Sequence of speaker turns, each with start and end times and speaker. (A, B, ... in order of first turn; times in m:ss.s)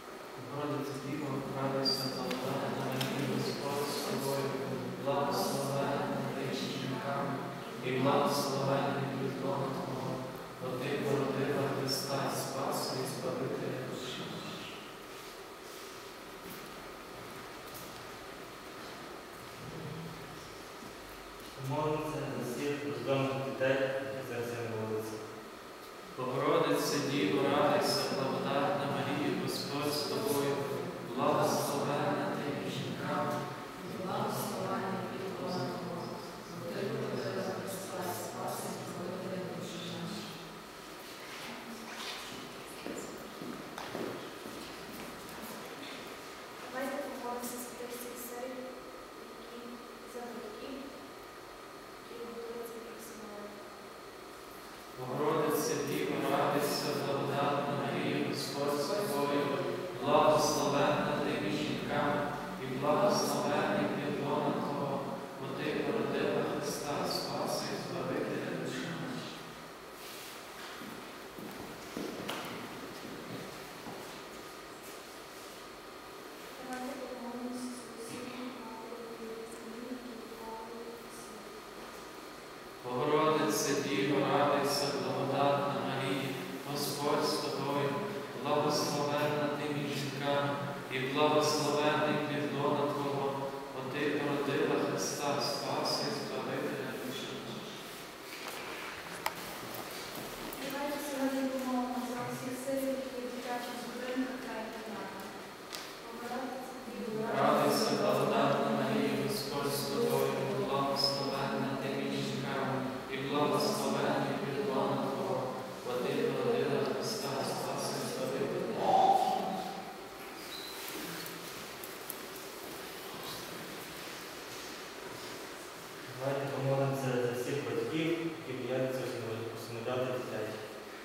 0:00.3-0:14.7 A
0:05.5-0:07.9 B
0:21.5-0:25.2 C
0:26.1-0:33.4 A
0:33.8-0:35.8 D
0:35.1-0:37.5 A
0:36.6-0:40.0 D
0:39.6-0:40.0 A
0:46.6-0:50.9 B
0:52.0-0:53.6 B
0:54.9-1:09.2 A
0:59.2-1:00.6 B
1:02.9-1:04.0 B
1:16.5-1:21.5 B
1:22.8-1:37.6 A
1:40.5-1:45.4 B
1:46.0-1:52.3 B
1:47.1-1:58.9 A
1:53.6-1:59.5 B
2:06.0-2:10.6 C